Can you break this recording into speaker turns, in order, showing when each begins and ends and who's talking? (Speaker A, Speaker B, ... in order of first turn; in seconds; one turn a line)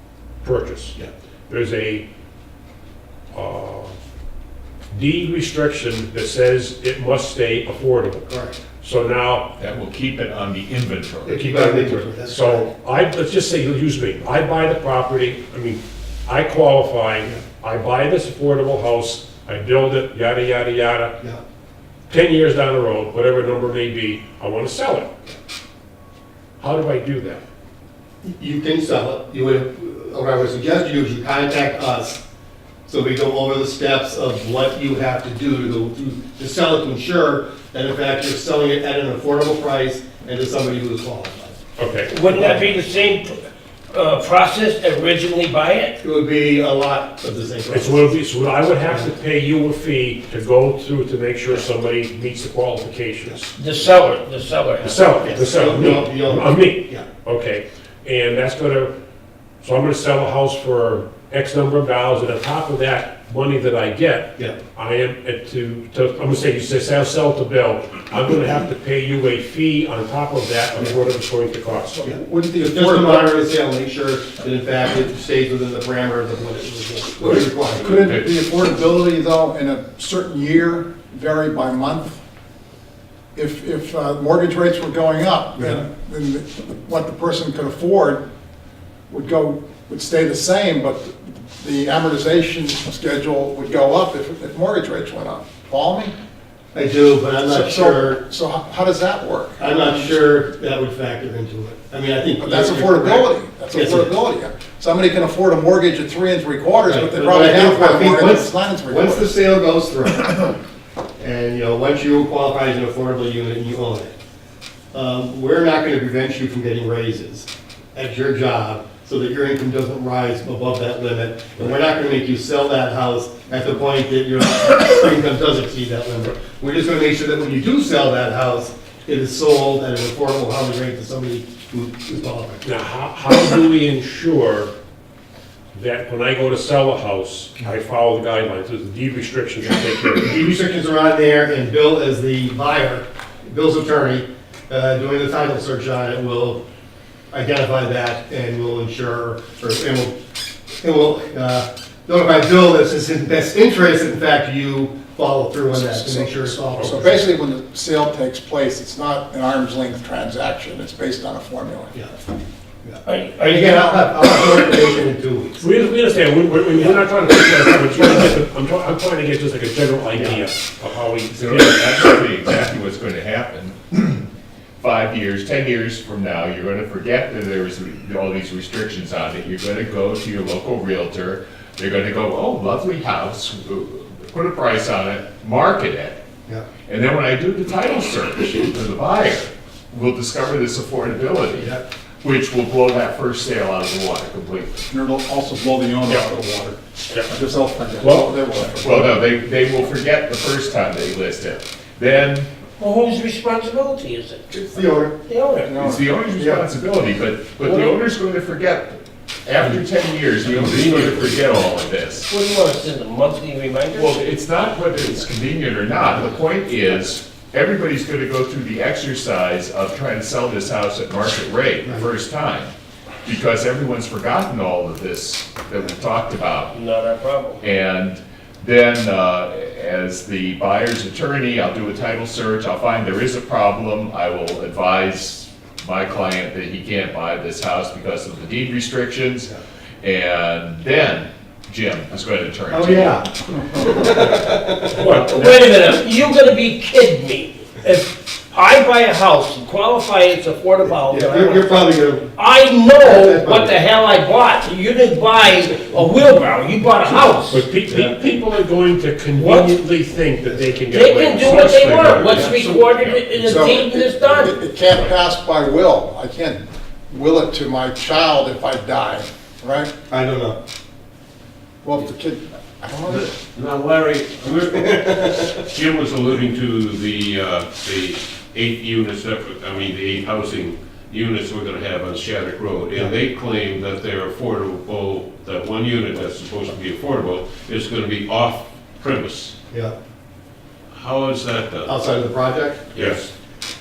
Speaker A: 0.4-1.0
Speaker A: 1.5-2.0
Speaker A: 3.3-4.0
Speaker A: 4.9-8.3
Speaker B: 8.3-8.6
Speaker A: 8.8-9.5
Speaker C: 9.6-11.4
Speaker B: 11.2-12.7
Speaker A: 11.4-21.1
Speaker A: 22.1-25.1
Speaker A: 26.6-27.4
Speaker B: 28.2-32.2
Speaker B: 32.9-41.6
Speaker A: 41.8-42.1
Speaker D: 42.1-46.0
Speaker B: 42.3-42.7
Speaker B: 46.0-48.1
Speaker A: 47.7-53.5
Speaker D: 53.6-55.5
Speaker A: 54.8-58.9
Speaker B: 55.2-57.1
Speaker A: 59.6-72.0
Speaker E: 71.9-73.4
Speaker B: 72.1-77.9
Speaker E: 77.8-82.2
Speaker E: 83.3-88.3
Speaker E: 89.1-96.2
Speaker B: 96.7-98.2
Speaker E: 97.5-100.2
Speaker B: 99.6-104.2
Speaker E: 102.4-109.4
Speaker B: 106.8-110.5
Speaker B: 111.2-114.1
Speaker B: 114.9-132.7
Speaker A: 132.6-134.7
Speaker A: 135.7-140.3
Speaker B: 140.2-146.6
Speaker B: 147.3-150.2
Speaker B: 150.8-157.2
Speaker E: 155.7-161.9
Speaker B: 162.8-165.6
Speaker D: 163.0-164.1
Speaker A: 165.6-172.0
Speaker B: 170.2-170.4
Speaker C: 171.3-174.3
Speaker C: 174.8-186.2
Speaker C: 186.8-194.9
Speaker B: 191.6-191.8
Speaker E: 194.9-196.8
Speaker E: 197.3-199.2
Speaker A: 198.0-198.3
Speaker C: 198.8-202.5
Speaker D: 202.8-204.4
Speaker B: 204.5-205.2
Speaker D: 205.3-205.7
Speaker E: 205.7-206.4
Speaker C: 205.8-212.3
Speaker D: 207.6-208.0
Speaker F: 210.5-211.7
Speaker D: 212.3-214.2
Speaker C: 213.9-222.7
Speaker C: 223.2-226.7
Speaker D: 226.7-227.6
Speaker C: 227.6-243.2
Speaker B: 242.7-245.1
Speaker A: 244.9-245.7
Speaker D: 245.1-257.7
Speaker B: 250.9-252.3
Speaker B: 253.0-253.8
Speaker A: 257.5-262.5
Speaker B: 257.9-258.1
Speaker D: 259.4-259.7
Speaker D: 260.9-264.6
Speaker F: 262.2-262.5
Speaker E: 263.4-269.9
Speaker B: 270.1-270.6
Speaker E: 271.8-273.3
Speaker F: 273.0-289.6
Speaker B: 275.3-275.5
Speaker F: 290.9-292.0
Speaker B: 291.9-293.2
Speaker F: 292.9-293.3